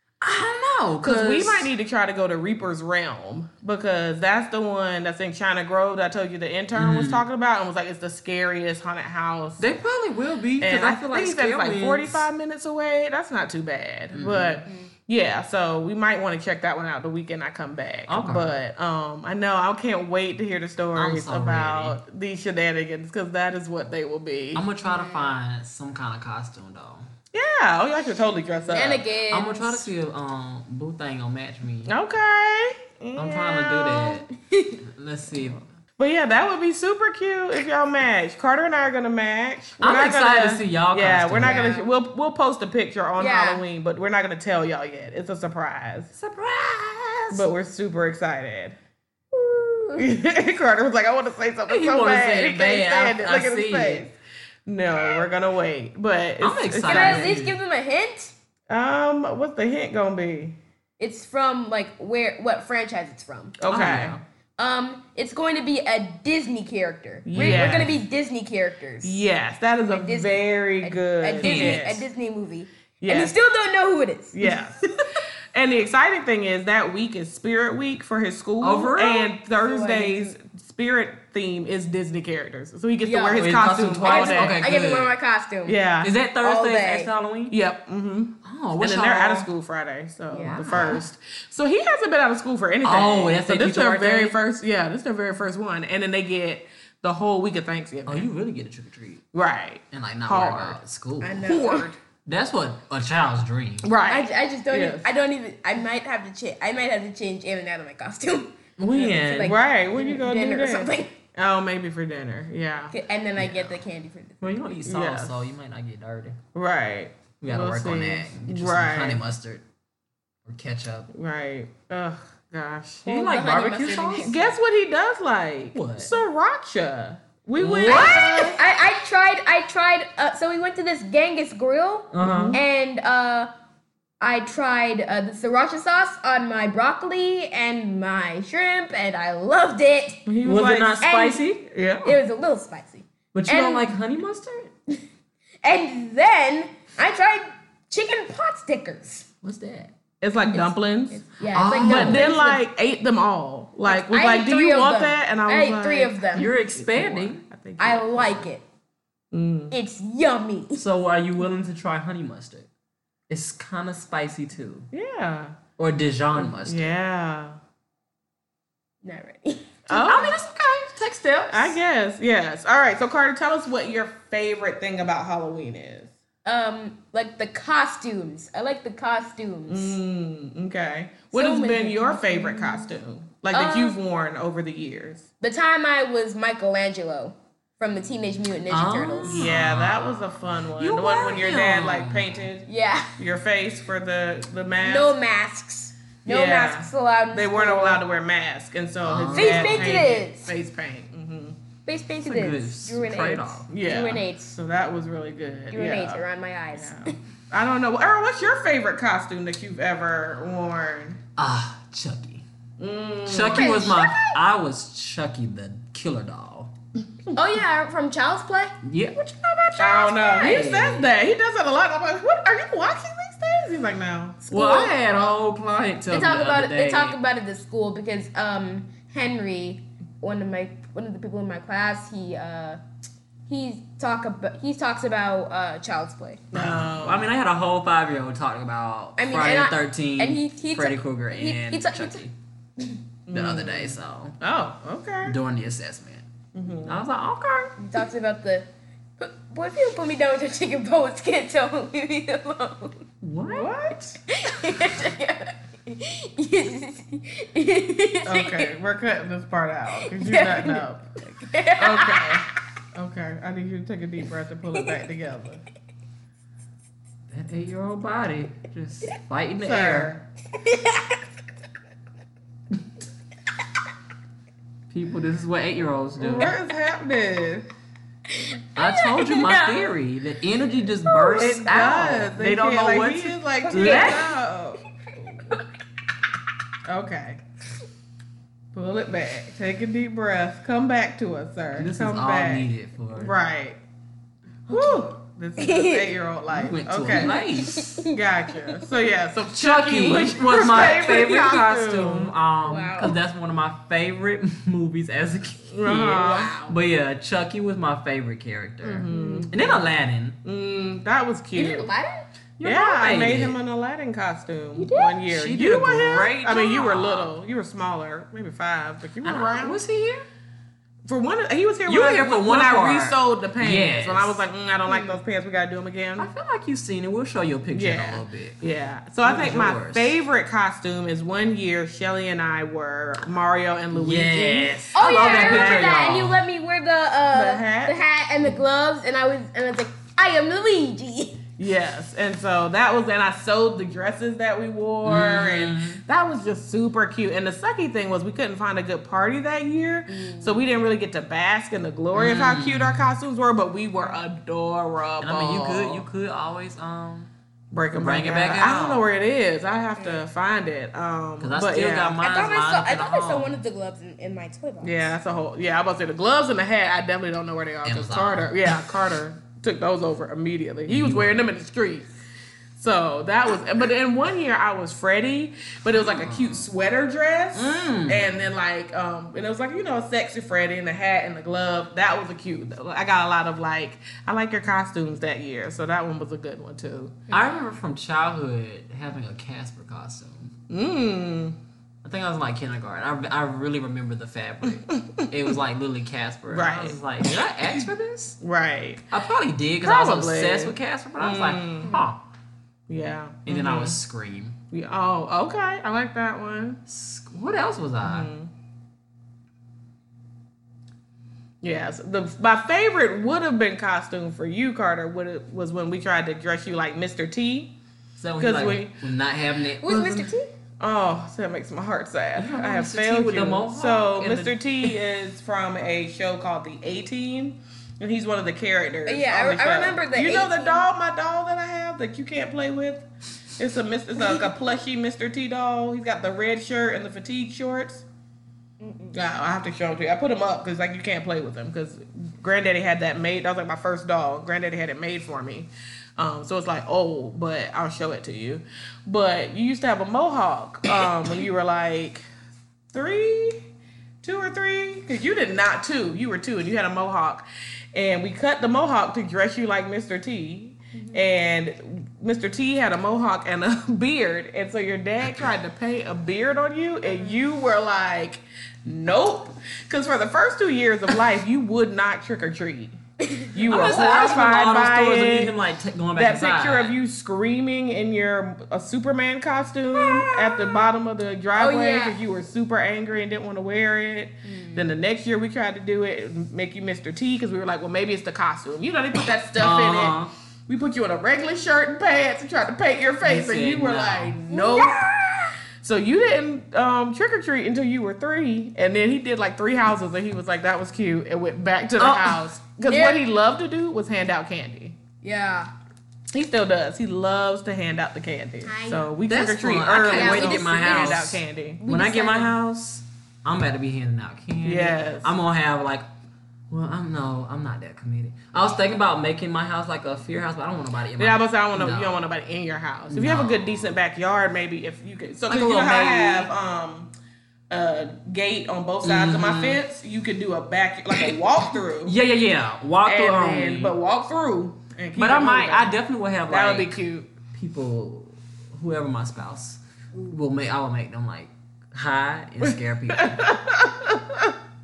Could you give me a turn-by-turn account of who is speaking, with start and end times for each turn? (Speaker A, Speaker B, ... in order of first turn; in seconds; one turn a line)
Speaker A: 0.2-1.7
Speaker B: 1.0-9.6
Speaker A: 6.7-7.2
Speaker A: 9.6-12.3
Speaker B: 10.6-24.6
Speaker A: 14.1-14.6
Speaker A: 18.1-18.5
Speaker A: 21.0-22.0
Speaker A: 24.6-27.1
Speaker C: 24.9-25.2
Speaker B: 27.3-29.0
Speaker C: 28.7-29.9
Speaker A: 29.3-31.9
Speaker B: 31.9-34.2
Speaker A: 33.1-34.2
Speaker C: 34.4-34.8
Speaker A: 34.9-35.6
Speaker B: 36.0-46.1
Speaker A: 39.8-41.6
Speaker C: 41.4-41.9
Speaker C: 43.2-43.6
Speaker A: 46.1-47.5
Speaker B: 47.3-48.8
Speaker C: 49.3-50.1
Speaker B: 50.0-54.1
Speaker A: 51.7-54.1
Speaker B: 54.7-57.4
Speaker A: 56.4-57.6
Speaker C: 56.9-58.3
Speaker B: 58.7-60.6
Speaker C: 61.0-63.5
Speaker B: 63.6-64.2
Speaker A: 63.7-64.2
Speaker C: 64.6-69.2
Speaker B: 67.3-68.0
Speaker A: 67.3-68.0
Speaker B: 69.0-72.1
Speaker C: 69.9-75.0
Speaker A: 71.4-71.8
Speaker B: 73.0-73.3
Speaker B: 74.3-74.9
Speaker B: 75.5-84.7
Speaker A: 78.6-79.3
Speaker C: 79.6-80.4
Speaker C: 83.0-85.8
Speaker A: 83.4-85.1
Speaker B: 85.7-86.1
Speaker A: 86.0-87.5
Speaker C: 86.4-87.1
Speaker B: 87.5-98.3
Speaker A: 88.5-89.5
Speaker C: 90.3-91.0
Speaker A: 90.4-91.1
Speaker A: 92.8-94.4
Speaker A: 98.1-99.2
Speaker B: 99.3-100.8
Speaker A: 99.9-101.5
Speaker C: 101.2-101.9
Speaker B: 101.4-102.0
Speaker A: 102.3-103.9
Speaker B: 103.8-105.1
Speaker C: 104.1-111.1
Speaker A: 108.8-109.5
Speaker B: 109.4-112.9
Speaker C: 112.9-114.6
Speaker A: 113.4-113.8
Speaker A: 114.4-116.4
Speaker B: 114.9-115.5
Speaker B: 116.5-119.2
Speaker A: 117.4-119.6
Speaker A: 120.5-121.1
Speaker B: 121.1-123.4
Speaker A: 123.1-124.4
Speaker C: 123.2-124.5
Speaker B: 124.2-128.6
Speaker A: 125.7-126.1
Speaker A: 127.6-128.6
Speaker C: 127.9-133.5
Speaker A: 132.1-132.6
Speaker B: 132.2-132.6
Speaker C: 134.2-140.2
Speaker B: 140.3-141.1
Speaker A: 140.4-141.6
Speaker C: 141.0-141.5
Speaker B: 141.7-142.2
Speaker C: 142.0-143.9
Speaker A: 143.3-144.7
Speaker C: 145.6-149.3
Speaker A: 149.4-149.9
Speaker B: 150.2-158.5
Speaker C: 150.5-152.6
Speaker A: 151.5-152.3
Speaker C: 153.9-156.5
Speaker A: 156.3-157.4
Speaker C: 157.8-158.6
Speaker B: 159.3-159.7
Speaker C: 159.7-160.8
Speaker A: 160.8-162.7
Speaker A: 163.3-164.9
Speaker B: 164.9-165.6
Speaker A: 165.8-166.9
Speaker B: 166.4-167.6
Speaker C: 169.0-169.7
Speaker B: 169.9-170.4
Speaker A: 169.9-171.8
Speaker B: 171.5-176.1
Speaker C: 176.4-180.0
Speaker B: 179.7-185.2
Speaker C: 181.3-182.9
Speaker C: 183.5-183.9
Speaker C: 185.4-189.4
Speaker A: 188.7-192.5
Speaker B: 189.2-195.1
Speaker C: 192.7-193.2
Speaker C: 194.8-198.0
Speaker B: 196.3-201.6
Speaker A: 199.0-200.2
Speaker C: 199.3-200.5
Speaker C: 201.9-204.5
Speaker A: 202.2-203.7
Speaker B: 203.7-206.2
Speaker C: 205.7-207.2
Speaker B: 206.7-211.2
Speaker A: 211.4-212.4
Speaker B: 212.8-213.8
Speaker A: 213.2-216.7
Speaker C: 213.5-214.4
Speaker C: 217.3-218.8
Speaker A: 218.8-221.1
Speaker C: 219.8-220.7
Speaker B: 219.8-224.4
Speaker C: 224.4-224.9
Speaker A: 224.5-227.2
Speaker C: 226.1-232.8
Speaker C: 233.5-236.4
Speaker B: 236.5-237.3
Speaker A: 236.5-242.3
Speaker C: 239.2-242.3
Speaker B: 243.3-245.4
Speaker A: 243.3-244.4
Speaker A: 245.2-246.2
Speaker B: 246.6-247.0
Speaker A: 246.8-247.8
Speaker C: 247.8-253.0
Speaker A: 253.2-253.7
Speaker B: 253.4-254.2
Speaker C: 254.3-258.7
Speaker B: 258.2-265.6
Speaker C: 260.0-262.4
Speaker A: 267.3-270.2
Speaker B: 269.6-270.2
Speaker C: 270.5-271.3
Speaker A: 274.9-276.6
Speaker B: 276.2-277.7
Speaker C: 278.3-279.9
Speaker A: 278.8-284.3
Speaker B: 281.2-284.8
Speaker C: 283.7-284.3
Speaker B: 286.9-287.4
Speaker B: 288.7-293.8
Speaker A: 291.8-293.3
Speaker C: 294.7-296.1
Speaker B: 294.7-297.4
Speaker A: 296.5-298.0
Speaker C: 297.1-298.1
Speaker B: 298.1-302.3
Speaker A: 299.5-310.4
Speaker C: 302.7-303.1
Speaker B: 305.7-306.6
Speaker C: 306.1-306.8
Speaker B: 308.8-309.8
Speaker C: 309.1-309.5
Speaker B: 310.4-311.9
Speaker C: 311.6-312.3
Speaker A: 312.6-313.6
Speaker B: 312.6-319.8
Speaker C: 314.8-315.2
Speaker A: 315.3-317.4
Speaker A: 319.2-320.3
Speaker B: 321.1-326.3
Speaker A: 321.9-324.4
Speaker C: 324.9-325.2
Speaker A: 326.2-328.6
Speaker B: 327.7-336.2
Speaker A: 329.2-330.1
Speaker A: 333.9-336.4
Speaker C: 334.9-341.4
Speaker B: 337.3-338.0
Speaker B: 341.6-356.0
Speaker A: 345.0-346.0
Speaker C: 350.1-350.6
Speaker A: 352.1-353.1
Speaker A: 355.2-357.3
Speaker B: 357.7-362.2
Speaker A: 358.0-359.1
Speaker C: 360.0-360.2
Speaker A: 361.4-363.6
Speaker C: 362.2-365.1
Speaker B: 364.8-372.1
Speaker A: 367.9-368.6
Speaker A: 370.9-371.4
Speaker B: 372.8-387.3
Speaker A: 376.0-376.7
Speaker A: 377.5-378.4
Speaker A: 387.3-390.5
Speaker B: 390.7-391.6
Speaker A: 392.0-398.4
Speaker B: 394.9-395.3
Speaker B: 396.5-397.4
Speaker B: 398.4-399.1
Speaker A: 399.1-402.2
Speaker B: 399.8-402.0
Speaker B: 402.9-404.0
Speaker A: 403.5-404.6
Speaker B: 404.7-406.8
Speaker A: 406.9-408.3
Speaker B: 408.0-408.5
Speaker B: 411.6-417.8
Speaker A: 418.2-420.3
Speaker B: 418.4-419.0
Speaker C: 419.8-420.5
Speaker B: 420.8-433.1
Speaker A: 422.4-424.9
Speaker C: 429.1-430.8
Speaker B: 433.6-438.1
Speaker C: 438.8-439.2
Speaker B: 439.1-452.2
Speaker B: 452.9-453.6
Speaker B: 454.2-473.0
Speaker C: 473.2-474.2
Speaker B: 473.5-475.5
Speaker A: 473.7-476.9
Speaker B: 476.1-495.1
Speaker C: 479.9-480.9
Speaker C: 481.6-482.2
Speaker C: 484.4-484.9
Speaker A: 489.6-490.3
Speaker A: 493.2-494.4
Speaker C: 494.5-495.6
Speaker B: 495.8-505.0
Speaker A: 502.0-502.4
Speaker C: 502.8-503.3
Speaker C: 505.2-505.7
Speaker B: 506.3-511.8
Speaker C: 508.6-509.1
Speaker A: 509.3-516.1
Speaker C: 510.1-511.2
Speaker C: 511.8-512.5
Speaker B: 514.6-515.3
Speaker A: 516.7-522.2
Speaker B: 521.2-527.1
Speaker A: 523.1-523.9
Speaker A: 525.5-526.5
Speaker B: 527.7-532.2
Speaker A: 529.0-529.8
Speaker A: 532.0-534.0
Speaker B: 533.0-535.9
Speaker A: 535.2-537.0
Speaker B: 536.5-537.3
Speaker A: 537.5-543.4
Speaker B: 543.1-544.5